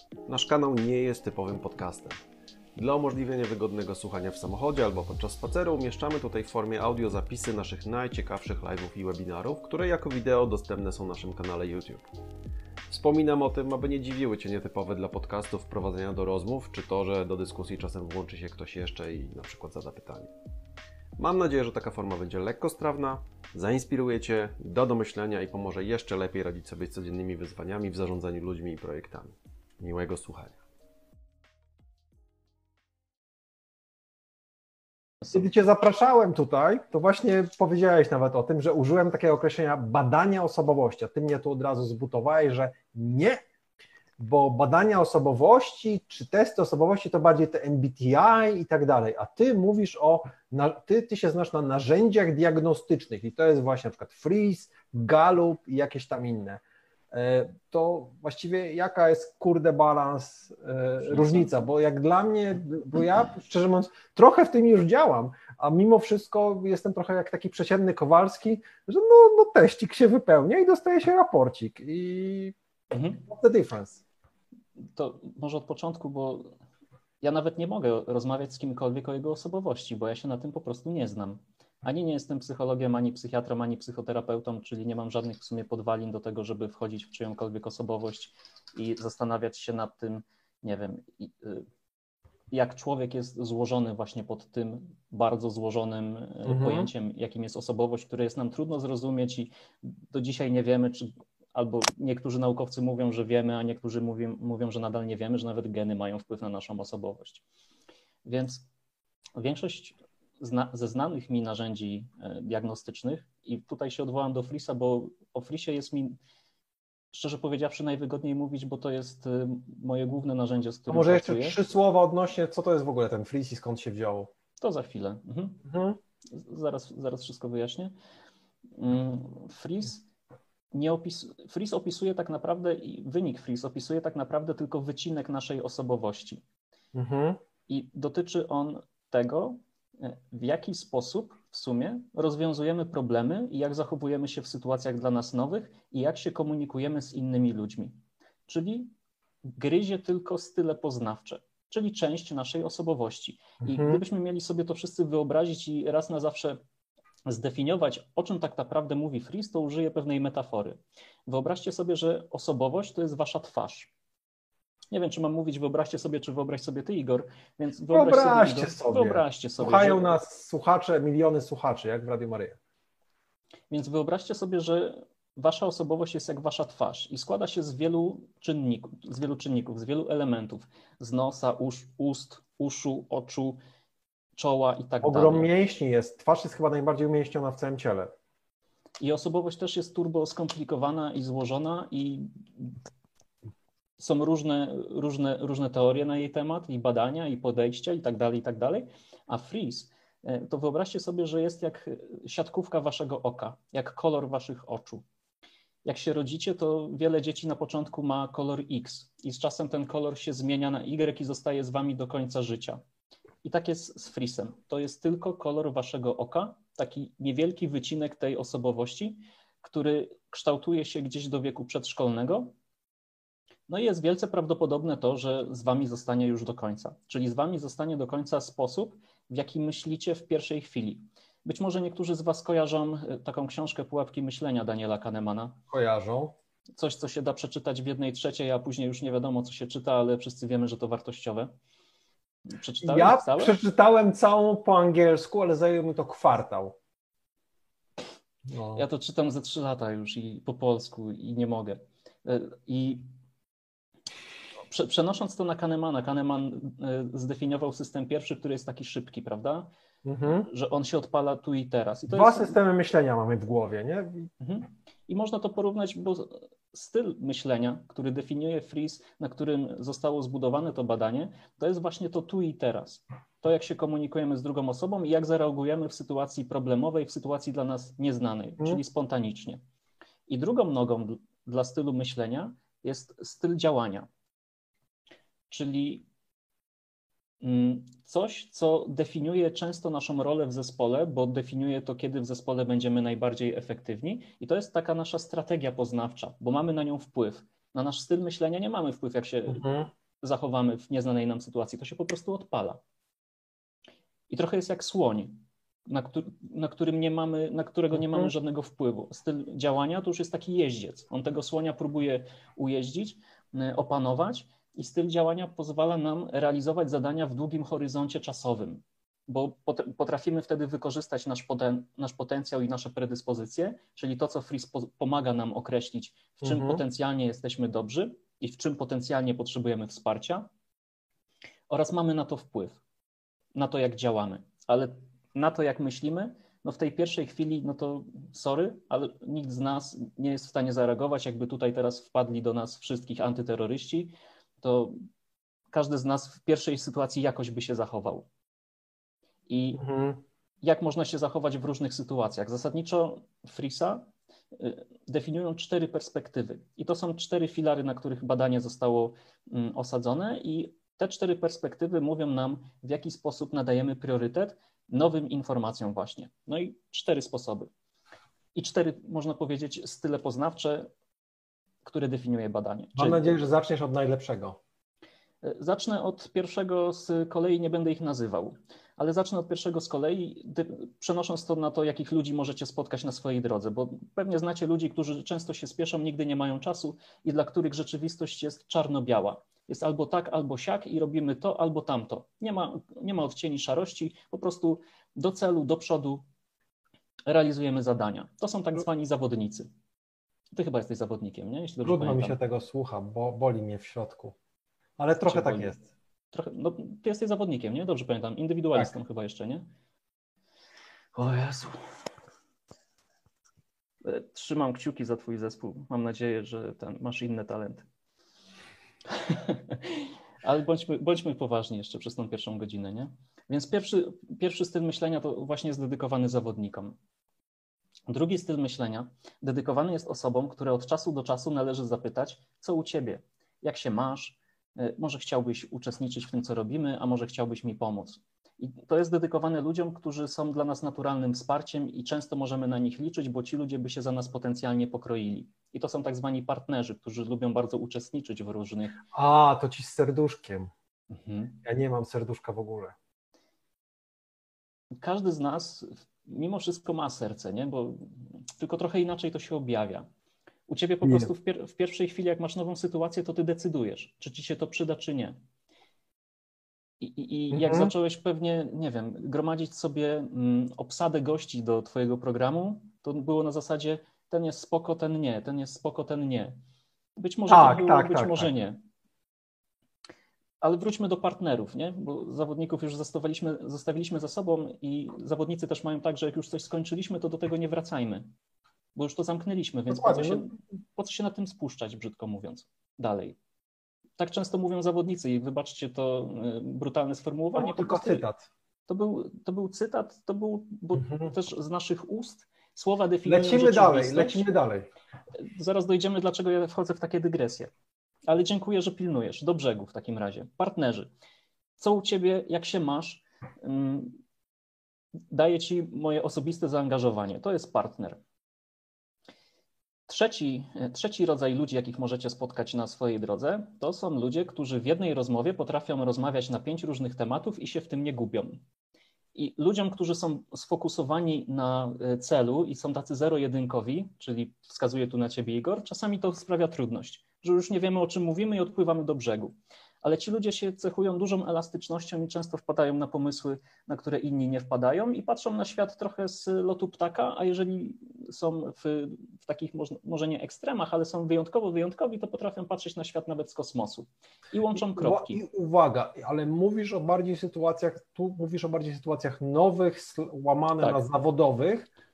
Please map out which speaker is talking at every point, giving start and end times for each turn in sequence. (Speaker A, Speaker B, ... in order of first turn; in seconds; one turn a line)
Speaker A: 0.3-2.2
Speaker A: 2.8-12.1
Speaker A: 12.9-20.3
Speaker A: 21.2-30.6
Speaker B: 35.3-43.4
Speaker B: 44.2-72.5
Speaker C: 72.9-73.2
Speaker B: 73.2-74.0
Speaker C: 74.9-76.5
Speaker C: 77.2-91.6
Speaker C: 92.5-107.4
Speaker B: 96.4-96.9
Speaker C: 108.2-108.6
Speaker C: 109.4-116.2
Speaker C: 117.1-121.6
Speaker B: 120.9-124.3
Speaker C: 124.6-125.6
Speaker B: 125.6-126.0
Speaker C: 126.3-127.9
Speaker C: 128.8-130.0
Speaker C: 130.7-136.4
Speaker B: 136.9-137.4
Speaker C: 137.7-147.9
Speaker C: 148.5-148.9
Speaker C: 149.5-156.6
Speaker B: 153.6-154.0
Speaker C: 157.3-163.9
Speaker C: 164.9-170.2
Speaker B: 167.9-172.6
Speaker C: 173.7-183.6
Speaker C: 184.4-185.5
Speaker B: 185.0-188.1
Speaker C: 189.0-192.8
Speaker C: 194.0-205.0
Speaker C: 205.8-212.8
Speaker C: 213.4-222.5
Speaker C: 223.7-235.6
Speaker B: 235.7-236.3
Speaker C: 236.8-241.5
Speaker C: 242.5-243.5
Speaker B: 242.8-246.8
Speaker B: 248.5-248.8
Speaker C: 248.7-253.1
Speaker C: 254.7-259.7
Speaker B: 260.0-260.5
Speaker C: 260.2-262.6
Speaker B: 262.1-264.3
Speaker C: 264.4-279.6
Speaker C: 280.3-284.1
Speaker C: 285.5-286.0
Speaker C: 287.4-299.6
Speaker B: 299.5-299.9
Speaker C: 300.2-302.8
Speaker C: 304.3-330.5
Speaker B: 307.9-308.3
Speaker B: 326.4-326.8
Speaker C: 331.7-332.8
Speaker C: 333.6-345.0
Speaker C: 345.7-348.2
Speaker C: 349.5-349.8
Speaker B: 349.8-350.2
Speaker C: 350.6-367.7
Speaker C: 368.5-370.9
Speaker C: 371.8-373.3
Speaker B: 372.9-374.6
Speaker C: 375.4-396.2
Speaker C: 397.3-399.7
Speaker C: 400.5-402.4
Speaker B: 401.8-404.4
Speaker B: 405.0-405.8
Speaker C: 405.2-405.7
Speaker C: 406.3-409.6
Speaker C: 411.1-411.8
Speaker C: 414.0-417.9
Speaker C: 419.1-426.9
Speaker C: 428.1-449.0
Speaker B: 449.1-450.7
Speaker C: 451.1-451.6
Speaker B: 451.6-452.9
Speaker C: 455.0-460.1
Speaker C: 460.7-465.4
Speaker B: 461.0-461.3
Speaker C: 467.0-476.6
Speaker B: 467.5-467.9
Speaker C: 477.2-478.8
Speaker B: 477.5-478.5
Speaker C: 480.6-488.3
Speaker C: 488.9-493.4
Speaker B: 489.9-490.5
Speaker C: 494.2-498.2
Speaker B: 497.5-498.5
Speaker C: 498.9-504.5
Speaker B: 501.0-501.3
Speaker B: 503.2-504.9
Speaker C: 505.5-507.7
Speaker C: 508.3-511.1
Speaker C: 511.8-514.2
Speaker C: 515.3-518.2
Speaker C: 520.1-528.6
Speaker C: 529.3-555.4
Speaker B: 554.7-561.9